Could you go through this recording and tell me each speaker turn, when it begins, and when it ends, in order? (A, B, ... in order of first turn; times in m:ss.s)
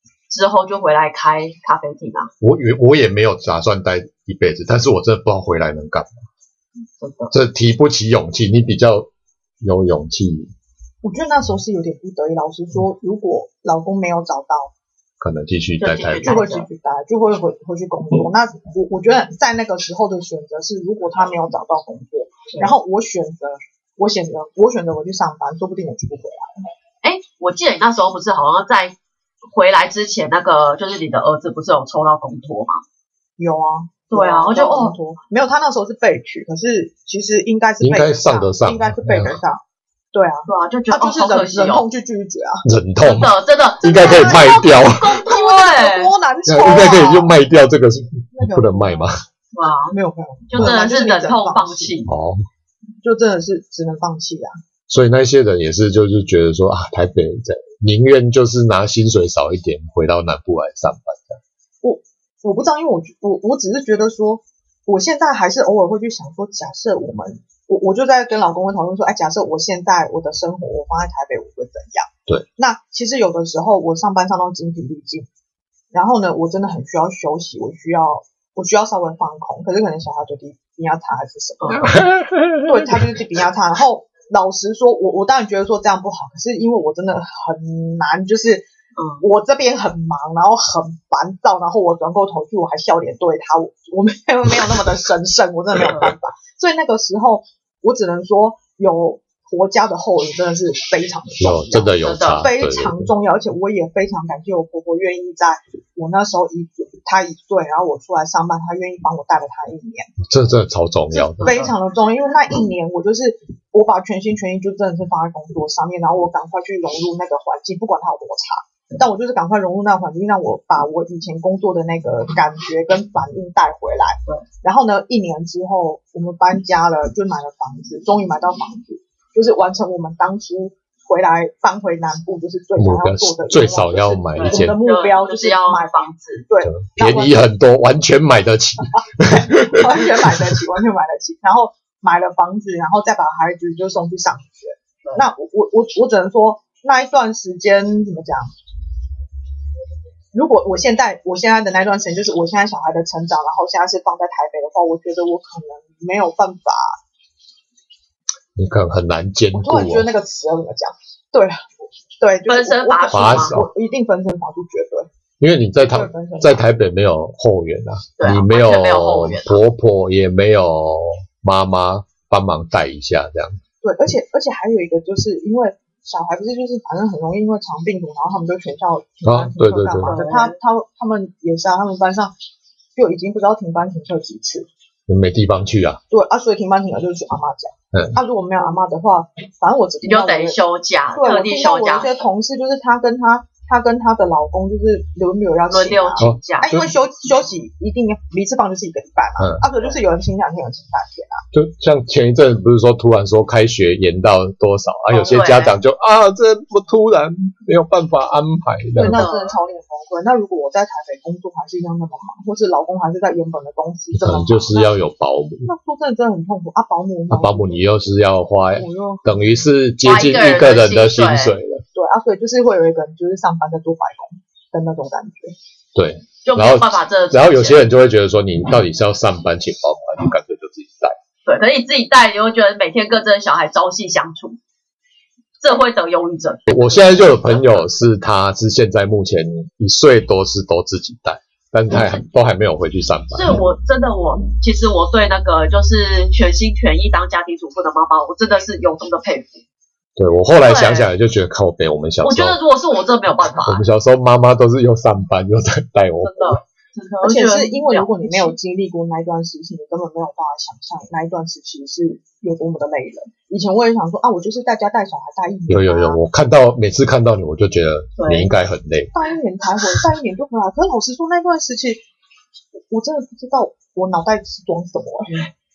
0:00.3-0:02.3 A
0:02.4-0:06.2 B
0:07.0-0:07.3 A
0:07.3-0:09.1 B
0:09.6-0:10.5 B
0:11.0-0:14.7 C
0:15.2-0:16.4 B
0:15.8-0:16.7 A
0:16.2-0:26.6 C
0:27.0-0:29.0 A
0:29.5-0:32.8 A
0:33.4-0:42.6 C
0:34.1-0:34.9 A
0:37.8-0:39.4 B
0:40.5-0:41.8 A
0:42.6-0:45.2 B
0:43.0-0:46.1 A
0:43.9-0:47.4 C
0:46.5-0:49.2 B
0:48.3-0:49.2 C
0:49.5-0:50.0 A
0:49.9-0:51.9 C
0:50.5-0:52.1 A
0:52.1-0:52.4 B
0:53.0-0:54.6 C
0:54.9-1:01.4 B
1:01.8-1:15.3 C
1:15.9-1:28.7 C
1:21.6-1:22.0 A
1:21.7-1:23.1 B
1:29.0-1:29.2 A
1:29.2-1:50.2 C
1:35.9-1:36.1 A
1:41.4-1:43.1 B
1:42.0-1:42.5 A
1:50.2-1:51.6 B
1:51.4-1:51.7 A
1:51.4-2:17.4 C
2:12.8-2:14.8 B
2:14.4-2:16.4 A
2:16.6-2:20.6 B
2:19.2-2:28.5 C
2:30.3-2:37.0 C
2:38.6-2:40.1 B
2:39.5-2:41.7 C
2:42.2-2:45.1 C
2:42.5-2:43.6 A
2:43.1-2:43.7 B
2:45.4-2:53.6 B
2:45.8-2:46.6 C
2:48.2-2:49.6 A
2:53.8-3:02.3 C
2:59.2-3:00.2 B
3:00.1-3:00.6 A
3:03.0-3:04.7 C
3:05.1-3:06.0 B
3:06.1-3:10.6 C
3:07.9-3:08.2 B
3:10.0-3:12.2 A
3:11.1-3:21.4 C
3:15.7-3:16.7 A
3:16.2-3:16.9 B
3:19.4-3:19.6 B
3:21.5-3:29.3 B
3:25.1-3:25.8 A
3:29.0-3:34.9 C
3:29.0-3:29.5 A
3:34.1-3:35.7 B
3:35.6-3:37.9 C
3:37.3-3:41.8 B
3:38.8-3:39.3 C
3:40.0-3:41.5 A
3:41.9-3:45.6 C
3:45.9-3:51.2 B
3:46.4-3:47.8 A
3:51.4-3:54.6 A
3:55.6-3:57.8 A
3:56.7-4:03.6 B
4:01.9-4:02.2 A
4:03.3-4:09.6 A
4:10.2-4:12.6 B
4:10.6-4:11.1 A
4:12.2-4:13.8 A
4:13.6-4:16.6 B
4:16.2-4:18.5 A
4:17.2-4:26.2 C
4:25.7-4:29.1 B
4:28.2-4:28.5 A
4:29.1-4:32.0 C
4:32.9-4:35.4 C